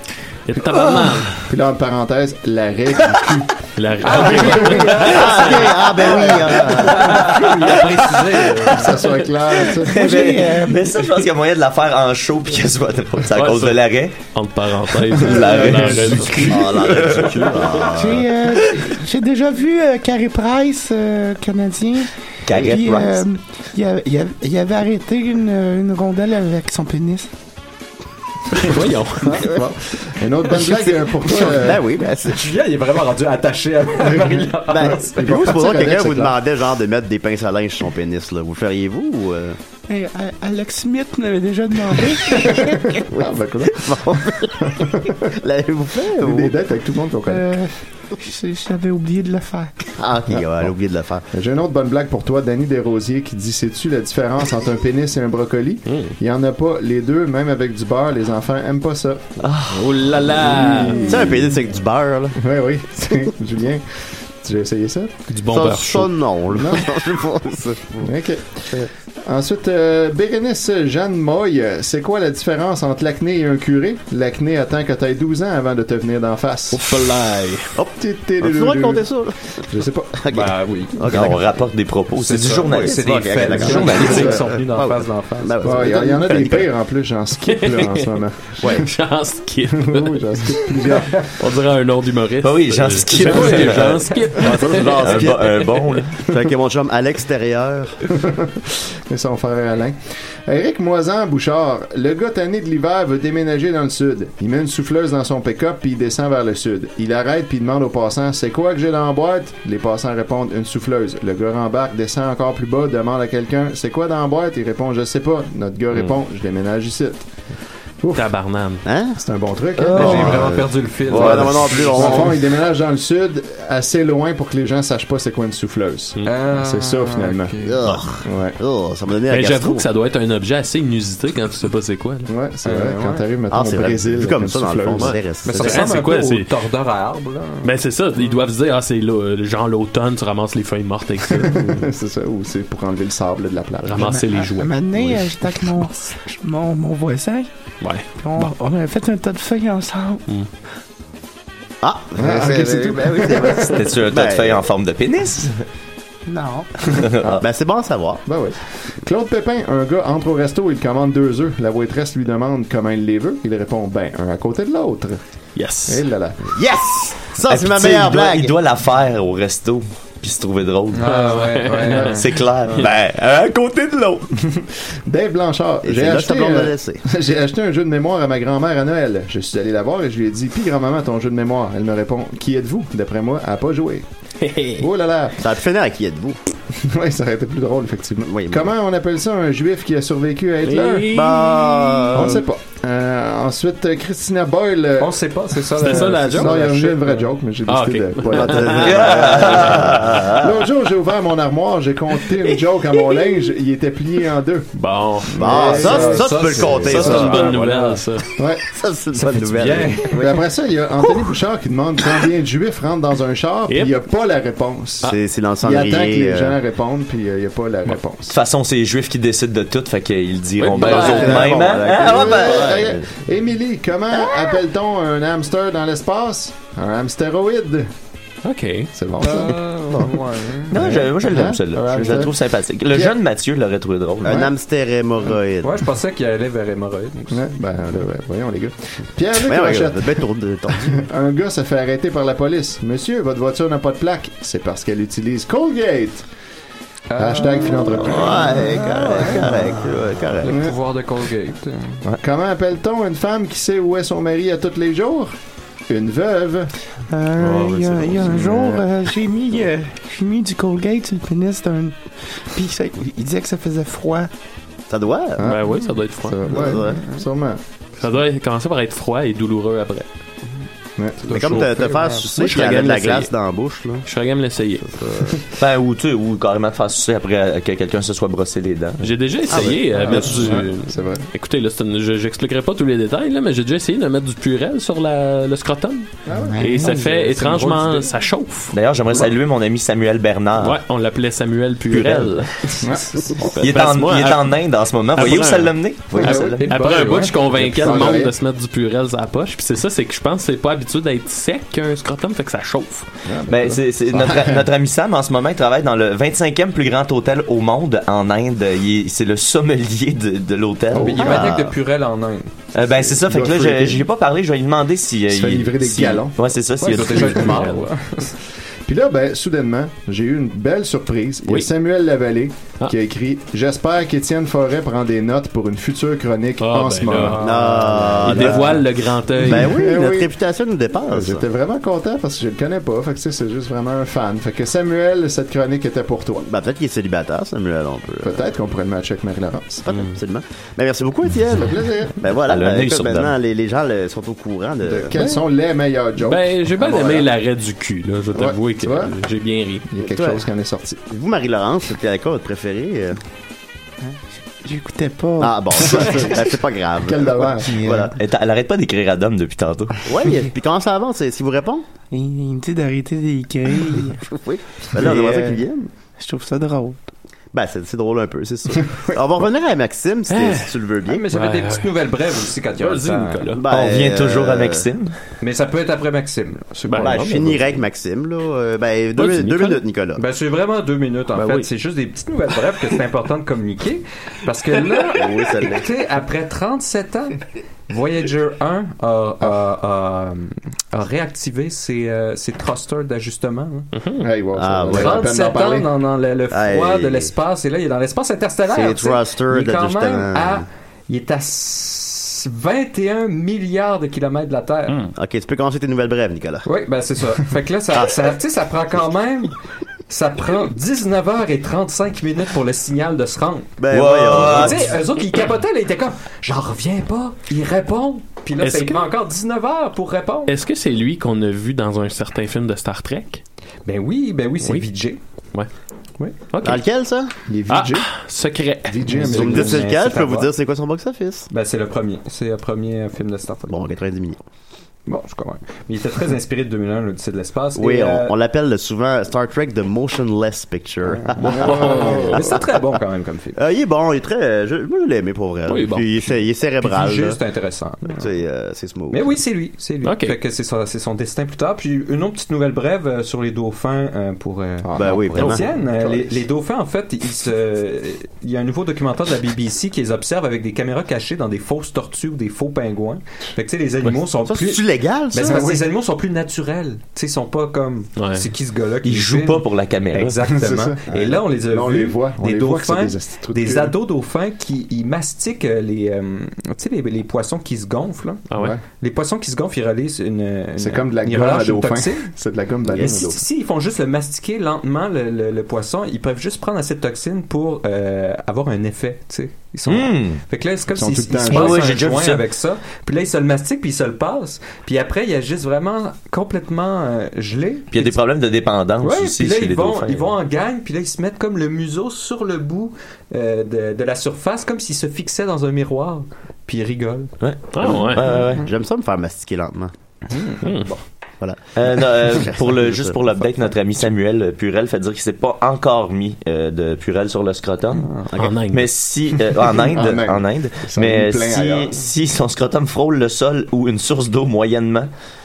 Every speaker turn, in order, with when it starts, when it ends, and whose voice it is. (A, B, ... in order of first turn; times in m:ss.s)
0:00.5-0:01.4 A
0:01.5-0:03.5 B
0:03.8-0:05.9 A
0:04.1-0:05.0 B
0:04.1-0:09.0 C
0:04.9-0:07.3 D
0:06.9-0:07.9 A
0:08.7-0:10.0 B
0:09.9-0:14.2 E
0:09.9-0:10.9 F
0:13.3-0:17.9 A
0:15.1-0:17.7 E
0:15.2-0:16.7 B
0:16.4-0:18.3 D
0:17.9-0:27.3 F
0:22.5-0:23.2 E
0:28.5-0:29.5 A
0:29.2-0:31.9 B
0:31.2-0:32.5 D
0:32.3-0:35.4 C
0:34.1-0:36.4 B
0:34.7-0:39.6 D
0:39.9-0:43.0 F
0:42.4-0:45.3 B
0:43.1-0:44.7 D
0:45.4-0:46.5 D
0:46.1-0:47.5 B
0:47.3-0:49.9 F
0:50.0-0:51.2 D
0:51.3-0:59.6 B
0:55.9-0:56.2 A
0:59.4-0:59.7 E
0:59.7-1:01.3 A
1:00.2-1:01.5 B
1:01.1-1:02.4 D
1:02.4-1:05.1 B
1:05.3-1:06.1 A
1:05.5-1:08.1 D
1:06.5-1:06.9 B
1:08.0-1:17.1 B
1:16.7-1:17.7 A
1:17.8-1:19.1 B
1:18.4-1:19.6 D
1:19.7-1:20.4 B
1:20.2-1:21.7 D
1:20.3-1:21.1 C
1:21.1-1:24.2 E
1:22.2-1:25.9 C
1:22.6-1:26.7 D
1:23.7-1:24.4 B
1:25.6-1:28.9 B
1:27.5-1:36.0 A
1:29.8-1:31.3 B
1:32.4-1:34.1 E
1:34.4-1:35.7 D
1:35.0-1:36.1 E
1:36.3-1:38.0 D
1:38.2-1:57.3 B
1:58.0-1:58.3 B
1:58.1-1:58.8 A
1:58.8-1:59.2 D
1:59.2-2:00.6 B
1:59.8-2:02.4 D
1:59.9-2:00.3 E
1:59.9-2:02.3 C
2:01.1-2:01.5 E
2:01.1-2:07.6 B
2:06.3-2:07.8 C
2:07.6-2:09.9 D
2:08.2-2:08.6 B
2:09.3-2:12.3 A
2:12.3-2:15.2 B
2:12.6-2:13.2 C
2:13.5-2:16.0 D
2:14.9-2:16.5 A
2:15.4-2:17.7 C
2:17.6-2:21.9 A
2:21.3-2:24.2 B
2:23.8-2:25.2 A
2:24.0-2:27.5 F
2:27.8-2:28.5 A
2:28.2-2:30.2 F
2:31.8-2:34.7 D
2:32.2-2:33.8 B
2:33.7-2:35.6 E
2:36.3-2:36.7 F
2:37.0-2:37.4 E
2:37.4-2:38.2 D
2:38.3-2:45.2 B
2:45.6-2:46.0 A
2:45.9-2:46.4 B
2:46.6-2:48.6 D
2:47.5-2:51.3 E
2:50.9-2:52.2 C
2:51.0-2:52.9 A
2:51.9-2:54.3 E
2:54.4-3:04.0 B
2:55.8-2:57.0 D
3:04.4-3:04.9 A
3:04.8-3:05.4 B
3:05.4-3:06.4 D
3:06.8-3:11.1 B
3:08.3-3:08.7 D
3:10.6-3:12.3 A
3:11.1-3:12.4 D
3:12.1-3:15.2 B
3:15.0-3:17.3 C
3:15.8-3:16.7 A
3:16.0-3:24.7 B
3:17.7-3:20.3 A
3:18.3-3:20.2 D
3:18.7-3:20.4 E
3:24.8-3:28.3 A
3:25.3-3:27.5 B
3:25.4-3:27.6 D
3:25.5-3:28.0 C
3:28.4-3:28.6 B
3:28.7-3:30.4 D
3:29.5-3:30.2 C
3:30.1-3:38.3 B
3:33.7-3:33.9 A
3:35.0-3:36.6 D
3:38.3-3:42.8 E
3:40.6-3:41.7 A
3:40.8-3:43.0 D
3:41.0-3:41.4 B
3:42.0-3:47.9 B
3:42.4-3:42.8 A
3:48.4-3:48.9 A
3:48.9-3:50.1 B
3:49.2-3:50.8 C
3:50.7-3:54.5 E
3:50.8-3:52.4 B
3:54.2-3:55.8 D
3:54.3-3:54.5 B
3:55.6-3:57.4 C
3:57.3-4:00.2 B
3:59.3-4:01.0 D
4:00.9-4:06.3 B
4:07.1-4:09.4 C
4:07.2-4:08.8 B
4:08.0-4:10.6 D
4:10.4-4:10.8 B
4:10.4-4:12.0 C
4:12.0-4:15.3 B
4:15.9-4:16.7 B
4:17.1-4:24.3 F
4:17.4-4:18.4 A
4:18.4-4:18.8 B
4:24.9-4:25.5 D
4:25.4-4:27.6 B
4:25.4-4:26.5 A
4:26.5-4:27.0 D
4:26.9-4:27.2 C
4:28.0-4:30.1 A
4:31.0-4:31.7 B
4:31.2-4:32.3 C
4:31.3-4:34.0 D
4:32.2-4:33.3 A
4:34.0-4:34.9 A
4:34.8-4:35.4 D
4:35.6-4:39.1 E
4:39.0-4:48.8 A
4:39.5-4:41.2 B
4:40.0-4:40.5 C
4:46.3-4:46.8 B
4:46.4-4:47.2 F
4:46.8-4:48.1 C
4:48.7-4:50.8 E
4:50.6-5:03.1 A
4:51.9-4:52.4 E
4:52.8-4:53.5 B
4:53.6-4:57.0 E
4:56.1-4:58.4 B
4:56.5-4:58.2 C
5:03.3-5:04.6 B
5:03.5-5:11.5 E
5:10.9-5:11.3 B
5:11.0-5:12.5 C
5:11.2-5:11.7 D
5:12.8-5:17.7 E
5:13.2-5:14.0 B
5:15.3-5:16.4 B
5:16.8-5:18.3 C
5:17.2-5:17.6 B
5:17.3-5:17.9 A
5:18.8-5:27.7 B
5:26.6-5:27.5 A
5:27.2-5:28.8 C
5:27.4-5:28.9 D
5:28.2-5:29.8 A
5:29.4-5:31.4 D
5:29.5-5:30.3 B
5:31.0-5:36.4 B
5:36.4-5:38.4 D
5:38.2-5:39.9 B
5:39.9-5:45.2 D
5:41.6-5:42.2 B
5:42.5-5:43.3 E
5:44.8-5:47.2 B
5:46.2-5:49.9 A
5:48.3-5:49.2 B
5:49.9-5:51.0 B
5:50.0-5:50.4 D
5:51.1-5:53.2 D
5:54.0-5:56.2 F
5:55.4-5:58.1 D
5:55.9-5:56.4 B
5:57.0-5:57.8 B
5:57.6-5:58.1 F
5:58.2-6:00.0 E
6:00.0-6:01.8 D
6:02.1-6:04.2 F
6:04.2-6:05.9 D
6:05.0-6:05.4 F
6:06.2-6:07.0 F
6:07.5-6:11.2 D
6:10.3-6:10.8 A
6:11.1-6:13.5 C
6:11.3-6:11.9 A
6:12.8-6:13.6 A
6:13.6-6:14.9 D
6:13.7-6:15.2 E
6:15.4-6:17.2 C
6:16.9-6:17.7 A
6:17.0-6:20.2 D
6:19.2-6:19.8 A
6:20.2-6:27.4 C
6:21.4-6:21.7 A
6:24.9-6:25.2 A
6:25.1-6:25.9 D
6:27.9-6:33.9 C
6:33.9-6:34.3 A
6:34.2-6:35.9 B
6:34.6-6:35.3 D
6:34.9-6:45.1 C
6:36.5-6:37.3 D
6:38.7-6:40.7 D
6:45.2-6:46.7 D
6:46.7-6:49.5 C
6:50.1-6:53.8 C
6:53.8-6:54.9 D
6:53.9-6:54.9 E
6:54.3-7:00.5 C
6:58.6-6:59.0 A
7:00.5-7:03.4 A
7:03.9-7:05.2 C
7:04.6-7:04.9 A
7:06.5-7:06.8 A
7:06.6-7:07.3 D
7:07.5-7:08.1 B
7:07.7-7:09.2 A
7:08.9-7:09.9 B
7:09.1-7:10.5 C
7:09.3-7:11.5 D
7:11.5-7:13.8 C
7:13.7-7:14.4 D
7:15.1-7:18.3 C
7:17.8-7:22.6 D
7:21.1-7:23.6 C
7:21.4-7:22.6 B
7:21.4-7:22.6 A
7:23.6-7:27.4 D
7:25.7-7:26.1 A
7:26.8-7:28.2 C
7:28.1-7:29.3 D
7:29.1-8:02.3 C
7:30.0-7:30.4 A
7:34.8-7:36.4 B
7:35.0-7:35.7 D
7:35.4-7:35.6 A
7:44.5-7:45.8 D
7:45.4-7:45.8 B
7:48.2-7:48.5 A
7:49.0-7:50.4 E
7:50.5-7:54.0 B
7:58.5-7:58.8 A
7:58.6-7:58.8 B
8:00.8-8:03.4 B
8:02.9-8:03.2 D
8:02.9-8:18.2 C
8:09.9-8:10.4 E
8:10.9-8:12.0 B
8:11.5-8:12.4 E
8:17.9-8:20.3 E
8:19.0-8:27.3 C
8:27.4-8:28.6 E
8:27.7-8:28.4 A
8:28.6-8:29.9 D
8:30.3-8:30.6 C
8:30.6-8:30.9 A
8:31.4-8:33.2 D
8:31.8-8:45.1 E
8:38.0-8:38.3 C
8:38.4-8:38.9 A
8:39.7-8:42.0 B